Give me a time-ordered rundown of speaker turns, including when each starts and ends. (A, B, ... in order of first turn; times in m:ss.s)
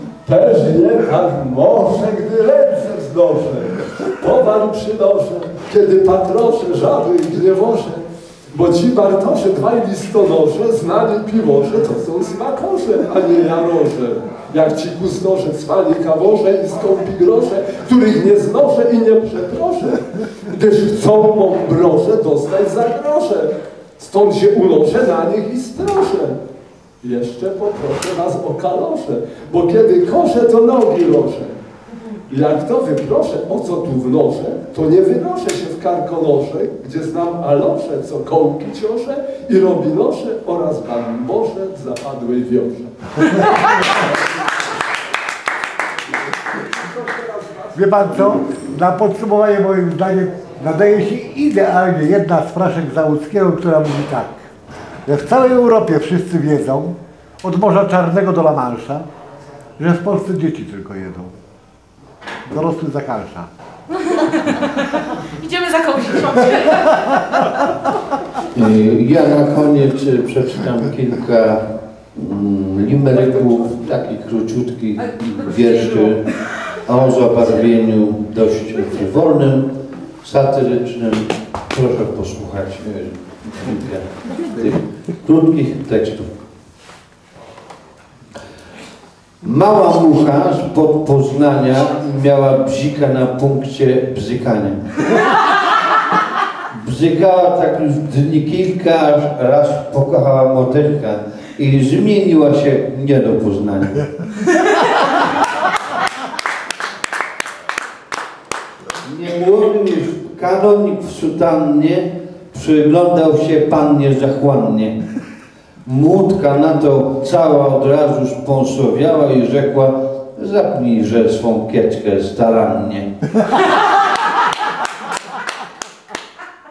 0:00.2-0:26.4 A
0:27.0-0:31.6 A
0:32.3-0:42.9 A
0:46.4-0:48.5 A
0:47.8-0:54.4 B
0:55.1-0:59.1 B
0:59.8-1:01.3 B
1:02.4-1:03.5 B
1:04.0-1:07.5 C
1:08.5-1:11.6 D
1:12.2-1:16.2 D
1:13.0-1:13.8 A
1:15.5-1:16.1 C
1:16.8-1:26.3 D
1:29.4-1:34.8 D
1:36.7-1:44.1 D
1:49.0-1:54.9 D
1:55.8-2:03.1 D